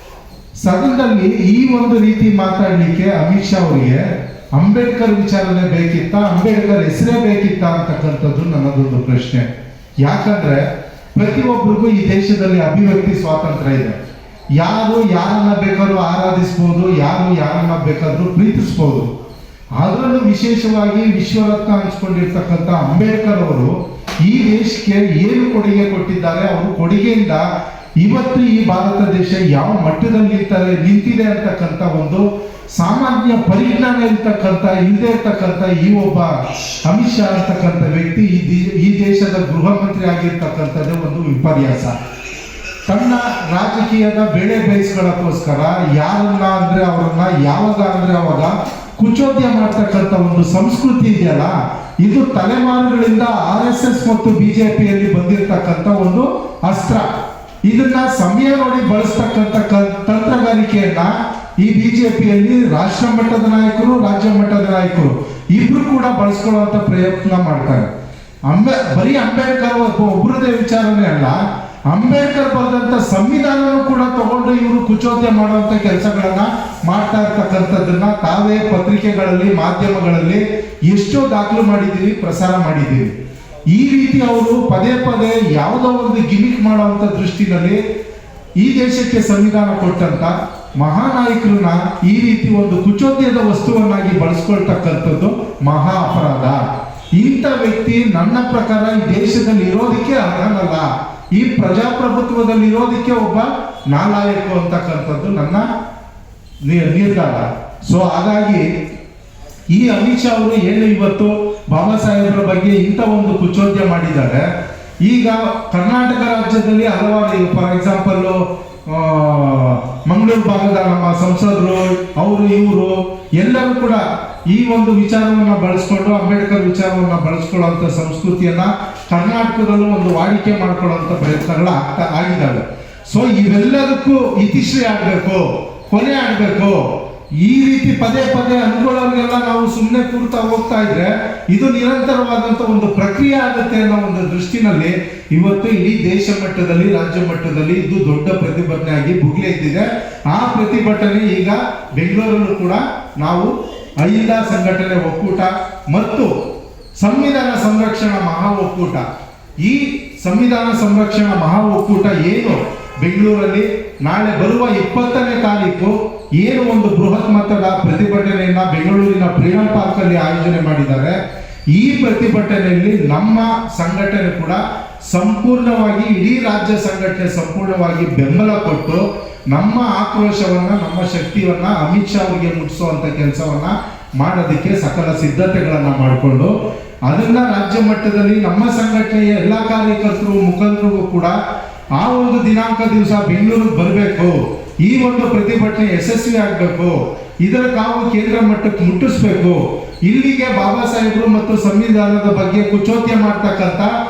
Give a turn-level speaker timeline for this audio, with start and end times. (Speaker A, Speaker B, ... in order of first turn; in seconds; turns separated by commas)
Speaker A: 0.6-4.0, Speaker A: 4.5-9.4, Speaker A: 10.0-10.6, Speaker A: 11.1-13.9, Speaker A: 14.6-19.0, Speaker A: 19.8-23.7, Speaker A: 24.2-27.4, Speaker A: 28.0-32.2, Speaker A: 32.8-36.3, Speaker A: 36.9-41.9, Speaker A: 42.9-57.0, Speaker A: 57.6-67.9, Speaker A: 68.5-71.4, Speaker A: 71.9-83.1, Speaker A: 83.7-87.8, Speaker A: 88.6-96.6, Speaker A: 97.1-105.6, Speaker A: 106.7-108.6, Speaker A: 109.7-114.4, Speaker A: 115.0-136.8, Speaker A: 137.4-153.5, Speaker A: 154.0-156.3, Speaker A: 157.0-159.0, Speaker A: 159.6-171.2, Speaker A: 171.7-174.6, Speaker A: 175.1-186.5, Speaker A: 187.1-191.3, Speaker A: 191.9-203.9